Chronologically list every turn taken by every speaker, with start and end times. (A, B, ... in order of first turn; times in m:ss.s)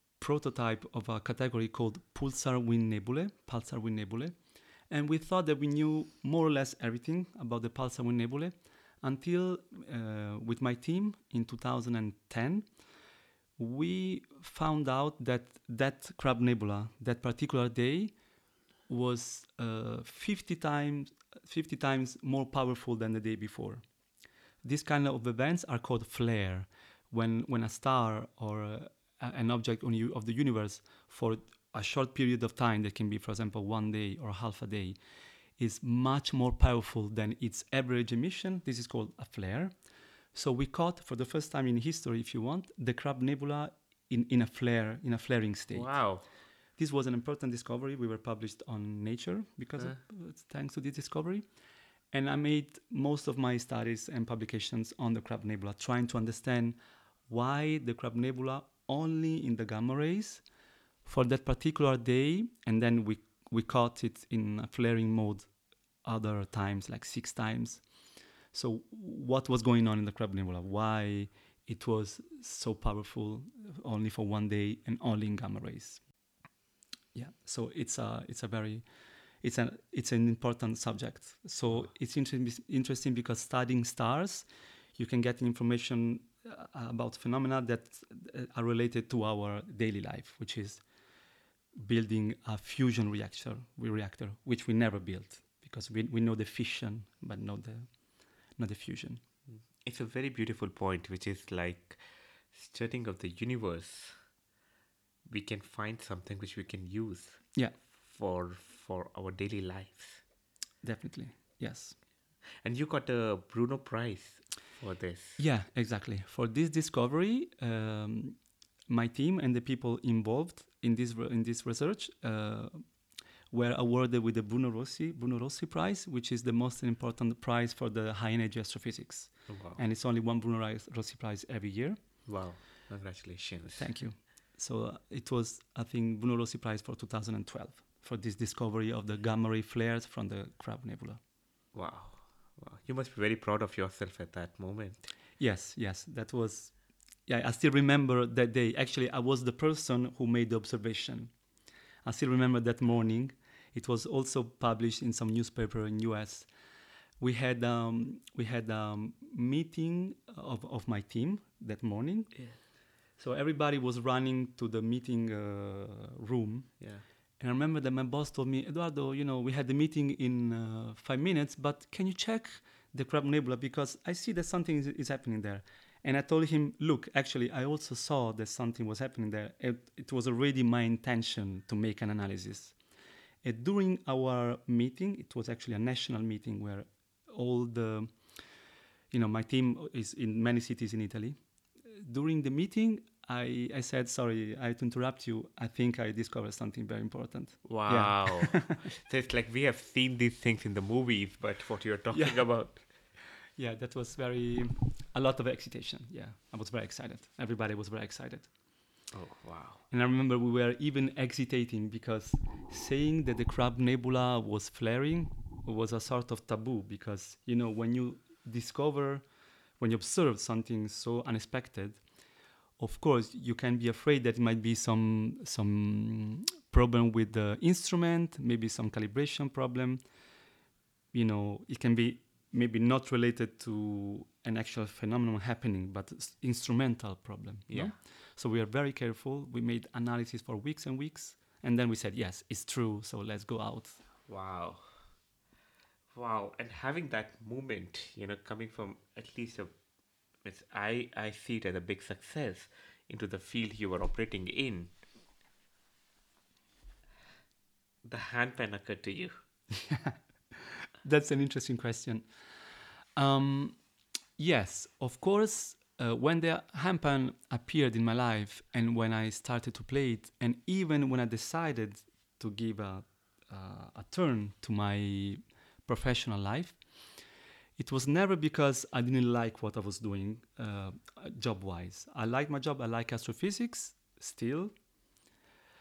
0:00.2-0:12.7 A
0:13.6-0:18.2 A
0:18.9-0:23.8 A
0:24.6-0:35.0 A
0:35.6-0:39.7 A
0:40.3-0:46.0 A
0:45.7-0:46.2 B
0:46.8-0:51.5 A
0:52.1-1:00.4 A
1:01.0-1:05.5 A
1:06.0-1:07.9 A
1:08.5-1:16.0 A
1:17.1-1:18.9 A
1:19.4-1:30.8 A
1:31.8-1:39.2 A
1:39.5-1:44.2 B
1:45.2-1:50.2 B
1:50.8-1:52.0 A
1:52.6-1:55.4 B
1:55.4-2:02.8 A
2:03.5-2:12.0 A
2:09.5-2:09.8 B
2:12.2-2:14.0 B
2:13.7-2:21.2 A
2:21.7-2:25.1 B
2:25.4-2:26.7 A
2:27.2-2:31.3 A
2:32.0-2:36.5 A
2:37.2-2:42.4 A
2:43.2-2:46.9 A
2:47.4-3:02.8 A
3:03.4-3:08.5 A
3:09.1-3:18.8 A
3:17.6-3:22.8 B
3:22.1-3:28.5 A
3:29.1-3:29.8 B
3:29.9-3:39.3 A
3:39.8-3:42.0 A
3:42.8-3:50.0 A
3:51.1-4:04.0 A
3:57.7-3:58.0 B
4:04.3-4:05.0 B
4:06.1-4:09.7 B
4:10.4-4:14.9 B
4:18.0-4:19.3 B
4:19.7-4:20.2 A
4:21.0-4:23.8 A
4:24.4-4:37.1 A
4:37.8-4:44.8 A